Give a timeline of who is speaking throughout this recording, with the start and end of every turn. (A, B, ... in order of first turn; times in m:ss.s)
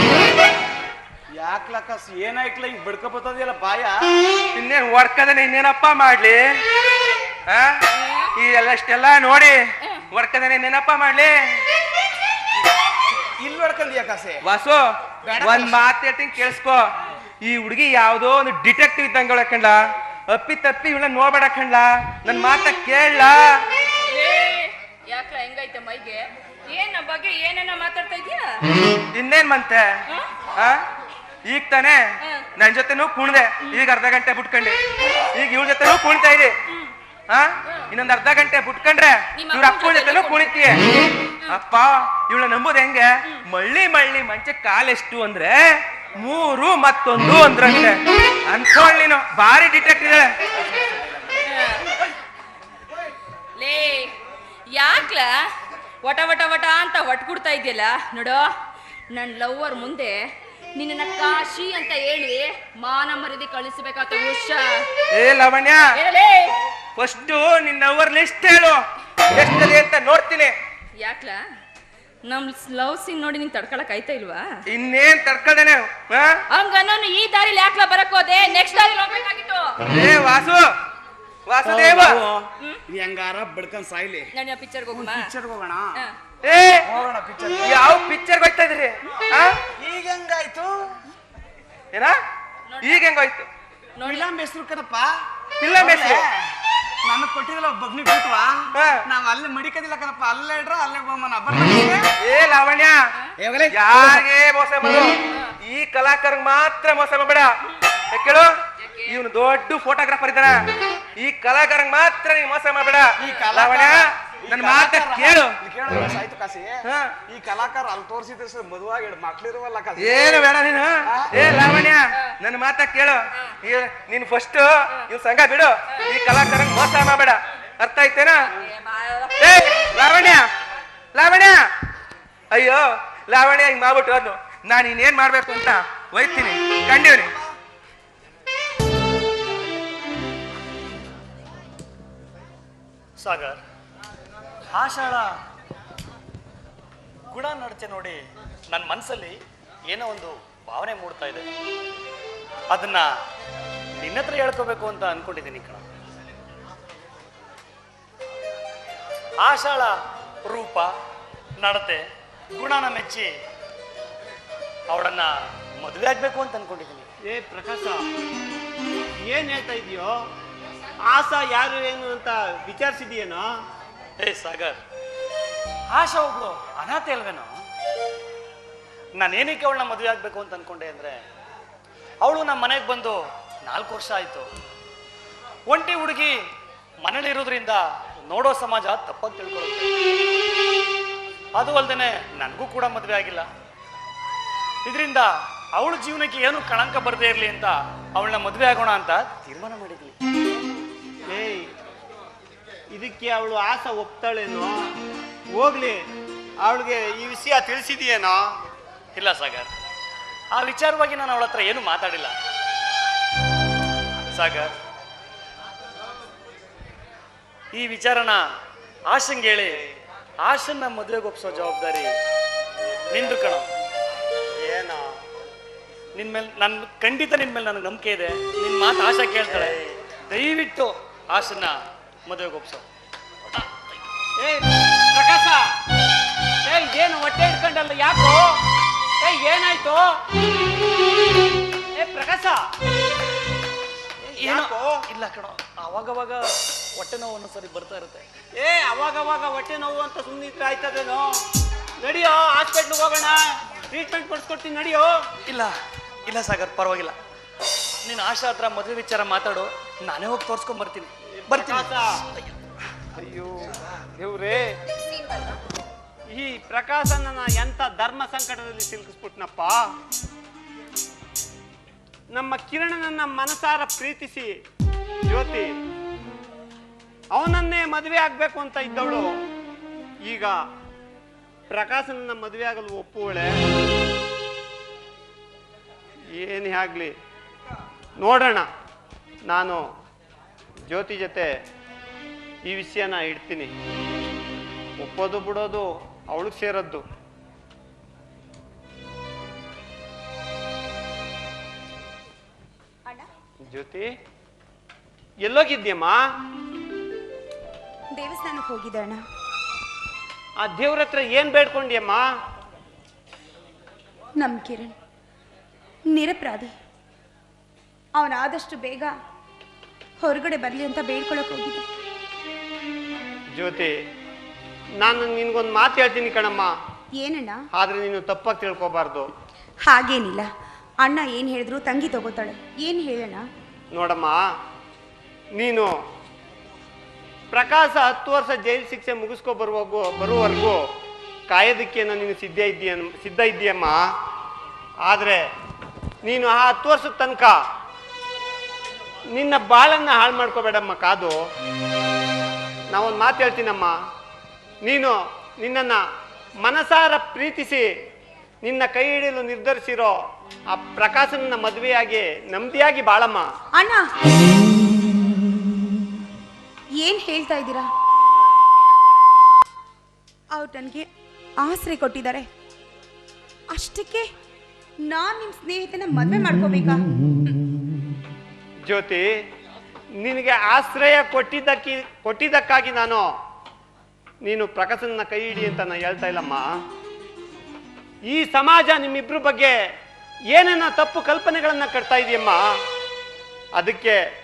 0:01.3-0:04.1 A
0:04.6-0:06.4 B
0:07.5-0:07.7 B
0:08.0-0:08.3 C
0:08.4-0:09.6 B
0:10.1-0:11.3 B
0:13.4-0:14.4 A
0:14.4-0:14.8 B
0:15.2-0:15.9 A
0:15.4-0:16.8 B
0:17.4-0:23.5 B
0:24.1-0:28.6 C
0:29.1-0:29.9 B
0:31.4-0:32.0 B
0:32.6-0:34.8 B
0:35.3-0:36.5 B
0:37.3-0:40.8 B
0:39.4-0:41.6 C
0:41.5-0:45.6 B
0:46.2-0:50.3 B
0:51.4-0:51.9 C
0:53.6-0:54.2 C
0:54.7-0:55.4 C
0:56.0-0:58.5 C
0:59.1-1:00.2 C
1:00.8-1:04.9 C
1:05.1-1:05.8 B
1:06.0-1:06.6 C
1:07.0-1:08.8 B
1:09.3-1:10.6 B
1:11.0-1:11.4 C
1:12.2-1:14.5 C
1:14.7-1:16.4 B
1:16.5-1:19.8 C
1:19.9-1:20.7 B
1:21.5-1:22.2 B
1:21.6-1:24.4 A
1:24.3-1:25.3 C
1:24.9-1:26.0 A
1:26.4-1:26.8 B
1:26.8-1:27.9 A
1:27.6-1:29.6 B
1:29.8-1:31.0 A
1:32.7-1:33.0 C
1:32.8-1:33.5 B
1:34.0-1:34.3 C
1:34.0-1:35.1 A
1:35.6-1:36.2 B
1:35.7-1:36.5 A
1:37.0-1:42.1 A
1:38.7-1:39.0 B
1:42.2-1:43.0 B
1:43.4-1:44.3 A
1:43.7-1:47.5 B
1:48.1-1:48.5 B
1:49.1-1:50.6 B
1:51.2-1:55.6 B
1:53.2-2:00.5 A
1:56.8-1:57.1 B
2:00.0-2:08.5 B
2:01.1-2:01.3 A
2:08.6-2:09.9 C
2:09.4-2:10.5 B
2:11.1-2:11.6 B
2:12.5-2:17.3 B
2:23.2-2:23.6 D
2:24.7-2:25.3 D
2:27.3-2:31.5 D
2:32.7-2:33.1 D
2:34.0-2:35.9 D
2:39.4-2:40.9 D
2:41.6-2:42.0 D
2:42.5-2:43.3 D
2:44.9-2:47.1 D
2:47.3-2:48.0 E
2:49.3-2:50.1 E
2:51.1-2:53.4 E
2:54.2-2:54.8 D
2:55.9-2:57.5 D
2:59.2-3:01.2 D
3:02.2-3:04.5 D
3:05.7-3:06.4 D
3:07.0-3:09.9 D
3:11.6-3:13.5 D
3:14.8-3:20.2 D
3:21.3-3:21.7 E
3:22.9-3:24.7 E
3:25.5-3:26.0 E
3:26.6-3:28.5 E
3:29.2-3:29.7 D
3:30.5-3:32.4 D
3:34.3-3:34.7 D
3:37.7-3:38.4 D
3:39.1-3:39.8 D
3:40.4-3:42.2 D
3:43.1-3:43.7 D
3:44.5-3:45.2 E
3:46.1-3:52.8 D
3:49.4-3:49.8 E
3:54.4-3:55.6 E
3:56.6-3:58.6 E
3:59.2-4:00.1 E
4:02.0-4:02.6 E
4:04.3-4:06.4 D
4:04.4-4:05.0 E
4:07.0-4:08.2 D
4:08.6-4:11.3 E
4:12.0-4:15.1 E
4:15.4-4:15.7 D
4:16.3-4:17.2 D
4:18.0-4:22.5 D
4:21.4-4:22.2 E
4:23.2-4:24.7 E
4:26.3-4:29.8 E
4:32.3-4:34.5 E
4:35.3-4:35.8 E
4:37.3-4:39.3 E
4:40.2-4:40.6 E
4:41.7-4:43.6 E
4:46.3-4:47.1 E
4:48.2-4:48.7 E
4:49.5-4:49.8 E
4:50.9-4:51.5 E
4:52.6-4:53.7 E
4:55.0-4:57.0 E
5:03.7-5:04.1 E
5:05.4-5:06.2 E
5:08.2-5:09.2 F
5:10.6-5:12.2 E
5:14.4-5:14.9 F
5:16.1-5:16.7 F
5:18.2-5:19.1 F
5:20.2-5:21.8 F
5:23.5-5:24.0 E
5:25.0-5:26.7 E
5:27.2-5:27.6 F
5:27.7-5:29.3 E
5:29.9-5:30.5 F
5:31.0-5:33.4 F
5:33.9-5:34.4 E
5:35.5-5:35.9 E
5:37.5-5:40.8 E
5:41.5-5:44.0 E
5:45.0-5:45.4 E
5:46.2-5:47.6 E
5:49.3-5:51.4 E
5:52.9-5:53.9 E
5:54.8-5:56.0 E
5:56.6-5:57.9 E
5:58.6-6:00.1 E
6:00.7-6:03.5 E
6:03.8-6:04.1 F
6:07.0-6:07.9 F
6:10.5-6:11.1 F
6:11.6-6:12.5 F
6:13.7-6:14.3 F
6:15.1-6:17.0 F
6:18.9-6:19.3 E
6:20.2-6:23.3 E
6:24.4-6:26.7 E
6:28.3-6:29.8 E
6:30.5-6:32.6 E
6:33.8-6:34.2 E